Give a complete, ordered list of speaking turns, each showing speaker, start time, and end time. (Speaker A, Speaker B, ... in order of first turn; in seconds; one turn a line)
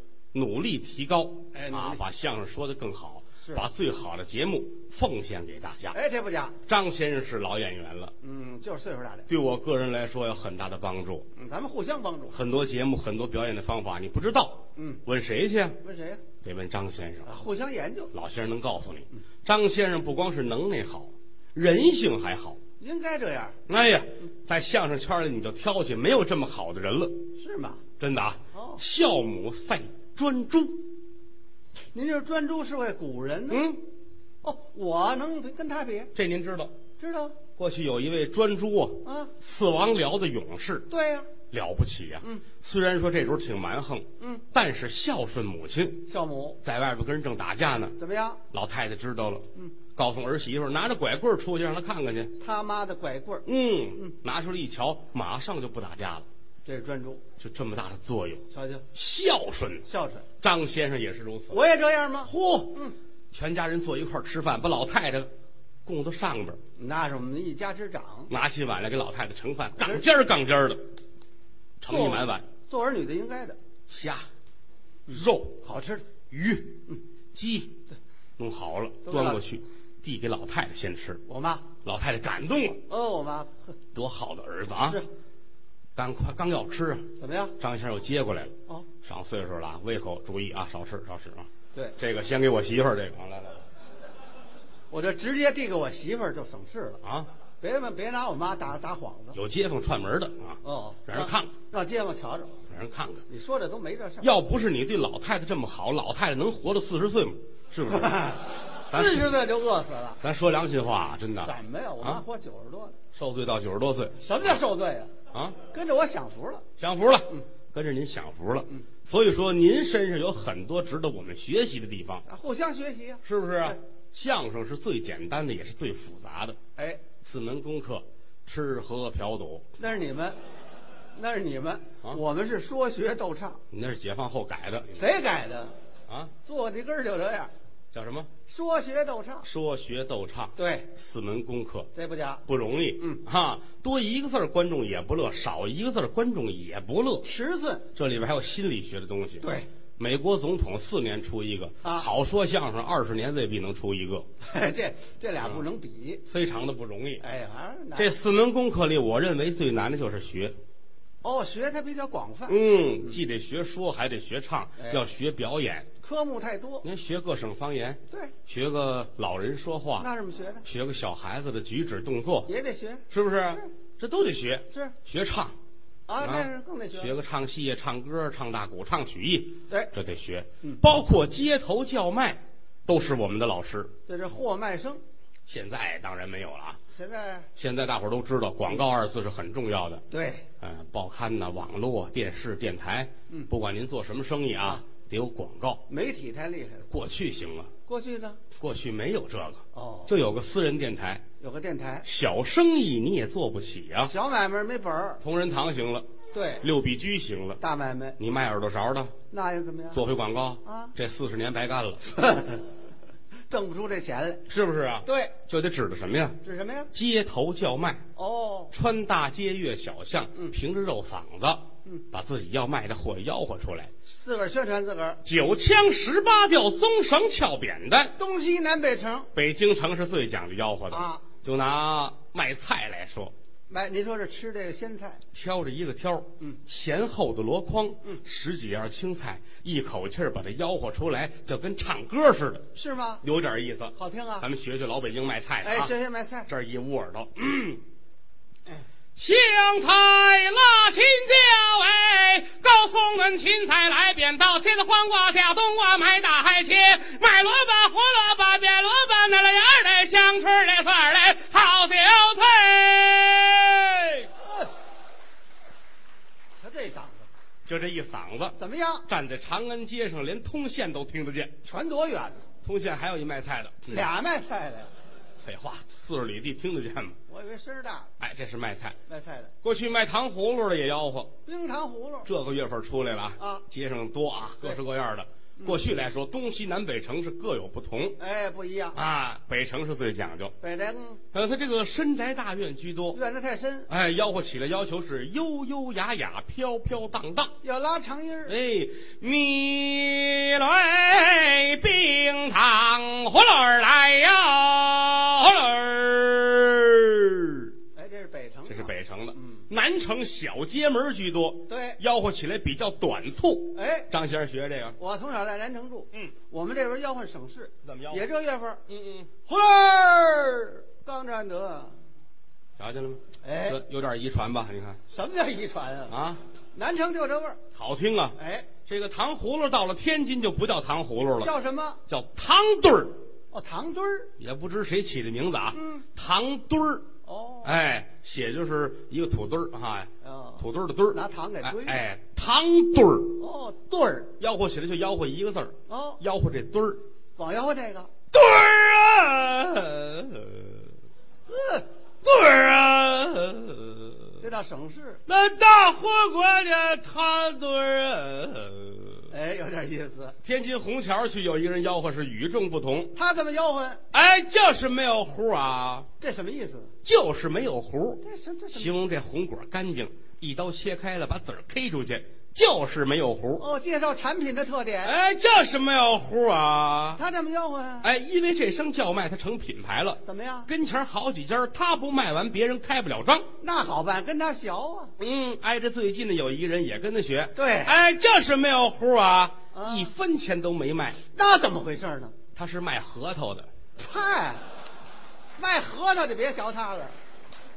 Speaker A: 0.3-6.0
Speaker B: 1.5-2.0
Speaker B: 5.9-6.6
Speaker A: 6.7-8.1
Speaker B: 8.2-9.3
Speaker A: 9.3-11.3
Speaker B: 11.4-12.4
Speaker A: 12.3-15.8
Speaker B: 14.8-15.0
Speaker B: 15.8-16.2
Speaker A: 16.4-17.3
Speaker B: 17.3-18.1
Speaker A: 18.1-22.6
Speaker B: 22.8-23.6
Speaker A: 23.7-27.2
Speaker B: 27.4-27.8
Speaker A: 28.0-30.8
Speaker B: 28.5-28.8
Speaker B: 31.9-33.7
Speaker A: 33.5-33.8
Speaker B: 34.4-36.1
Speaker A: 36.1-36.7
Speaker B: 37.0-37.4
Speaker A: 37.5-40.9
Speaker B: 39.0-39.3
Speaker B: 40.9-41.3
Speaker A: 41.5-46.1
Speaker B: 44.2-44.5
Speaker B: 46.1-46.6
Speaker A: 46.6-48.0
Speaker B: 48.0-48.4
Speaker A: 48.5-52.3
Speaker B: 52.4-54.1
Speaker A: 53.5-56.3
Speaker B: 56.7-57.2
Speaker A: 57.4-59.9
Speaker B: 58.5-58.9
Speaker B: 59.9-60.2
Speaker A: 60.4-61.6
Speaker B: 61.5-63.0
Speaker A: 62.2-62.8
Speaker A: 63.3-65.3
Speaker A: 65.8-66.6
Speaker B: 66.8-68.3
Speaker A: 68.3-70.8
Speaker B: 69.8-70.0
Speaker A: 71.8-72.5
Speaker B: 71.9-73.6
Speaker A: 73.9-74.3
Speaker A: 75.1-75.6
Speaker B: 75.1-76.0
Speaker A: 76.3-76.8
Speaker A: 77.3-77.8
Speaker A: 78.4-81.2
Speaker B: 79.1-79.4
Speaker B: 81.3-81.7
Speaker A: 81.8-82.8
Speaker B: 82.9-83.7
Speaker A: 83.9-85.0
Speaker A: 86.0-93.6
Speaker B: 87.2-87.6
Speaker B: 94.9-97.0
Speaker A: 97.0-97.3
Speaker B: 97.6-99.4
Speaker A: 99.3-101.5
Speaker B: 100.6-102.5
Speaker A: 102.7-103.2
Speaker B: 103.3-104.3
Speaker A: 104.2-109.3
Speaker B: 107.9-110.2
Speaker A: 110.2-112.2
Speaker B: 111.4-113.0
Speaker A: 113.1-114.6
Speaker B: 114.2-115.1
Speaker A: 115.3-115.6
Speaker B: 115.7-116.6
Speaker A: 116.8-122.2
Speaker B: 122.3-123.8
Speaker A: 123.2-126.6
Speaker B: 126.8-127.0
Speaker A: 127.2-129.7
Speaker B: 129.8-130.4
Speaker B: 131.2-133.6
Speaker A: 133.7-135.0
Speaker B: 135.0-135.7
Speaker A: 136.1-136.3
Speaker B: 136.4-137.5
Speaker A: 137.9-138.3
Speaker B: 138.5-139.5
Speaker A: 139.4-141.9
Speaker B: 140.6-140.9
Speaker B: 141.9-142.4
Speaker A: 142.5-147.3
Speaker B: 147.2-147.9
Speaker A: 147.9-149.5
Speaker B: 149.4-149.7
Speaker A: 150.0-154.3
Speaker B: 154.4-156.2
Speaker A: 156.3-157.2
Speaker B: 157.2-158.1
Speaker A: 158.0-160.6
Speaker B: 161.2-163.2
Speaker A: 162.5-165.9
Speaker B: 166.0-166.9
Speaker A: 166.8-170.1
Speaker B: 170.0-170.7
Speaker A: 170.6-172.5
Speaker B: 172.5-173.7
Speaker A: 173.1-175.6
Speaker B: 176.1-177.1
Speaker A: 176.2-183.9
Speaker B: 184.1-185.0
Speaker A: 185.5-186.8
Speaker B: 186.9-187.5
Speaker A: 187.6-190.0
Speaker B: 190.1-190.4
Speaker A: 190.6-195.8
Speaker B: 195.9-196.9
Speaker A: 196.9-197.7
Speaker B: 197.9-198.4
Speaker A: 198.6-201.2
Speaker B: 199.7-200.1
Speaker B: 201.4-202.1
Speaker A: 202.0-204.1
Speaker B: 204.1-205.2
Speaker A: 205.2-206.1
Speaker B: 206.3-206.6
Speaker A: 206.6-207.6
Speaker B: 207.6-208.2
Speaker A: 208.2-209.2
Speaker B: 209.3-210.0
Speaker A: 209.9-212.1
Speaker B: 210.7-210.9
Speaker B: 212.1-212.6
Speaker B: 213.5-214.4
Speaker A: 214.5-216.4
Speaker B: 215.1-215.3
Speaker B: 216.4-216.9
Speaker A: 216.9-218.0
Speaker B: 218.2-218.7
Speaker A: 218.7-223.9
Speaker B: 224.2-225.2
Speaker A: 225.2-228.1
Speaker B: 228.2-229.3
Speaker A: 229.3-233.3
Speaker B: 230.9-231.2
Speaker B: 233.7-235.2
Speaker A: 235.3-242.7
Speaker B: 242.8-243.2
Speaker A: 243.2-245.9
Speaker B: 244.0-244.5
Speaker B: 245.6-246.5
Speaker A: 246.5-247.8
Speaker A: 249.2-264.3
Speaker B: 264.4-264.7
Speaker B: 266.6-267.3
Speaker A: 267.6-271.6
Speaker B: 268.6-269.1
Speaker B: 271.6-272.4
Speaker A: 272.6-274.1
Speaker B: 273.9-274.9
Speaker A: 275.4-277.2
Speaker B: 277.3-278.1
Speaker A: 278.2-279.0
Speaker B: 279.1-279.5
Speaker A: 279.6-281.3
Speaker B: 281.5-282.3
Speaker A: 282.3-288.2
Speaker B: 283.4-283.6
Speaker B: 285.6-285.8
Speaker B: 288.2-289.0
Speaker A: 288.9-290.5
Speaker B: 290.6-291.2
Speaker A: 291.3-293.2
Speaker B: 293.1-293.9
Speaker A: 293.9-297.5
Speaker B: 297.6-298.5
Speaker A: 298.5-307.7
Speaker B: 308.0-309.7
Speaker A: 308.7-315.0
Speaker B: 311.7-312.0
Speaker B: 313.8-314.1
Speaker B: 315.0-318.8
Speaker A: 317.8-318.3
Speaker A: 318.9-319.3
Speaker B: 319.5-321.9
Speaker A: 322.8-325.0
Speaker B: 323.4-323.8
Speaker B: 325.1-326.1
Speaker A: 326.1-326.4
Speaker B: 326.8-327.6
Speaker A: 327.8-331.6
Speaker B: 328.4-328.7
Speaker B: 331.4-332.0
Speaker A: 332.1-333.2
Speaker B: 333.5-334.3
Speaker A: 334.4-337.1
Speaker B: 335.7-336.1
Speaker B: 337.3-337.7
Speaker A: 337.6-343.4
Speaker B: 340.2-342.0
Speaker B: 343.4-344.3
Speaker A: 344.4-347.0
Speaker B: 345.9-346.2
Speaker B: 347.4-348.1
Speaker A: 348.3-350.9
Speaker B: 351.5-351.9
Speaker A: 352.2-354.4
Speaker B: 354.4-355.2
Speaker A: 355.3-359.3
Speaker B: 359.3-360.4
Speaker A: 360.4-363.1
Speaker B: 363.2-364.0
Speaker A: 364.1-366.1
Speaker B: 366.2-366.9
Speaker A: 367.0-373.6
Speaker B: 368.2-368.9
Speaker B: 373.6-375.1
Speaker A: 375.0-377.2
Speaker B: 377.2-378.1
Speaker A: 378.0-383.5
Speaker B: 380.3-380.7
Speaker B: 383.6-385.1
Speaker A: 385.2-391.2
Speaker B: 387.6-387.9
Speaker B: 389.7-390.1
Speaker B: 391.4-392.4
Speaker A: 392.6-393.7
Speaker B: 394.0-394.6
Speaker B: 395.6-397.1